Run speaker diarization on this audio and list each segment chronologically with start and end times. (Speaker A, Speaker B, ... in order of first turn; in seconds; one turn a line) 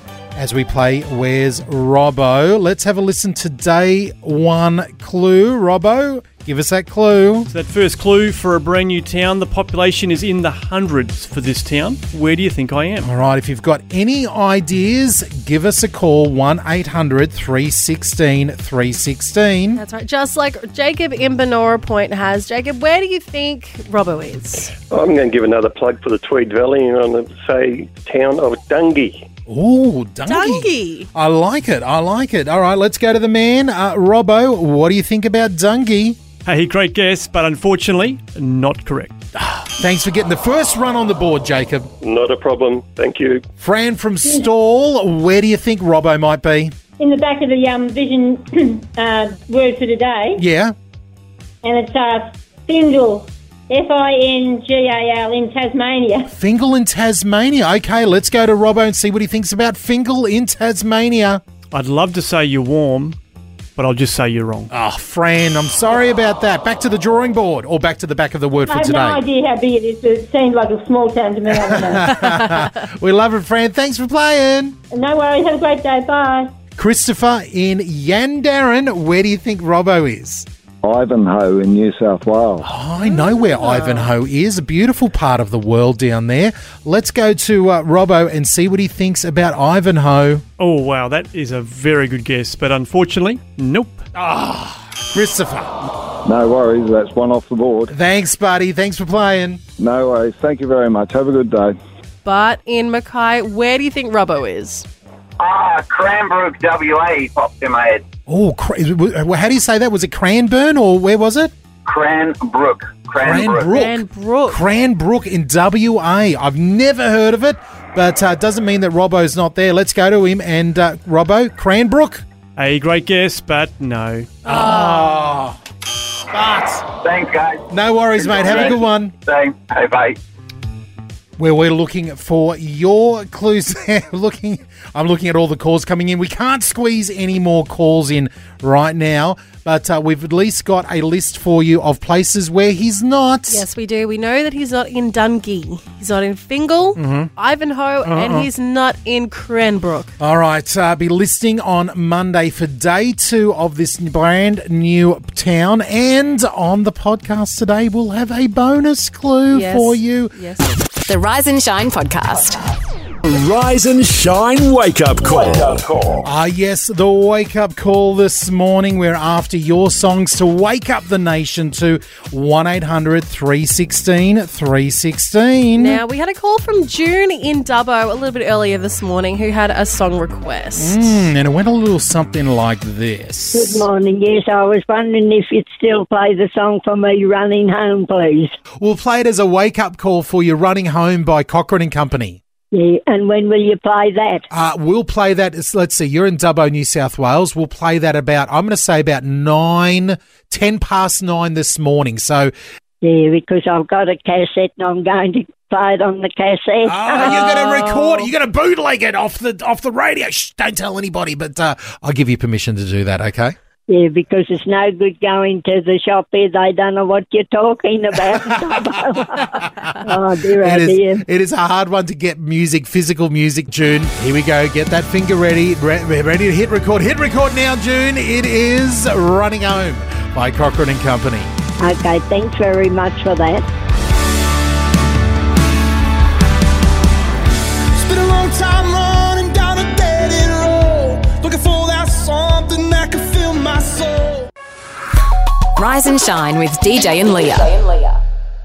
Speaker A: 0.3-7.5
Speaker B: 7.5-13.1
Speaker A: 13.0-19.8
Speaker C: 19.7-24.7
Speaker D: 24.9-29.3
Speaker A: 29.5-36.2
Speaker C: 30.2-31.1
Speaker B: 36.4-39.1
Speaker A: 39.3-41.9
Speaker D: 42.0-43.4
Speaker A: 43.6-46.8
Speaker E: 47.0-50.4
Speaker A: 50.4-50.7
Speaker E: 51.6-56.3
Speaker A: 56.3-61.4
Speaker B: 61.7-63.2
Speaker B: 63.8-64.7
Speaker A: 64.7-69.2
Speaker E: 68.7-72.4
Speaker A: 71.7-74.8
Speaker C: 72.0-72.8
Speaker E: 74.9-76.5
Speaker A: 76.8-80.5
Speaker F: 80.8-82.7
Speaker A: 82.6-90.4
Speaker C: 83.0-84.1
Speaker B: 90.6-94.0
Speaker A: 94.1-95.7
Speaker F: 96.2-97.9
Speaker A: 97.9-99.6
Speaker F: 99.8-101.8
Speaker C: 102.2-104.9
Speaker G: 105.4-108.0
Speaker A: 108.3-111.5
Speaker G: 111.8-113.7
Speaker A: 113.2-122.2
Speaker C: 113.5-114.6
Speaker B: 122.5-124.4
Speaker C: 124.4-125.2
Speaker A: 124.5-125.6
Speaker A: 126.3-126.9
Speaker G: 127.0-130.2
Speaker A: 127.7-129.1
Speaker C: 128.5-128.8
Speaker A: 131.4-143.6
Speaker C: 143.5-150.1
Speaker A: 146.9-147.3
Speaker A: 148.0-148.5
Speaker A: 150.2-160.3
Speaker C: 159.5-160.8
Speaker H: 161.1-162.6
Speaker I: 163.2-166.3
Speaker A: 166.2-176.0
Speaker C: 175.8-181.0
Speaker A: 180.8-183.9
Speaker J: 183.5-188.5
Speaker A: 188.8-192.4
Speaker J: 192.7-194.4
Speaker A: 194.5-202.5
Speaker J: 203.0-207.4
Speaker A: 206.8-213.6
Speaker C: 207.2-208.3
Speaker J: 213.9-221.2
Speaker A: 218.1-220.1
Speaker A: 220.6-231.5
Speaker J: 231.8-233.6
Speaker K: 237.9-244.5
Speaker H: 245.8-248.2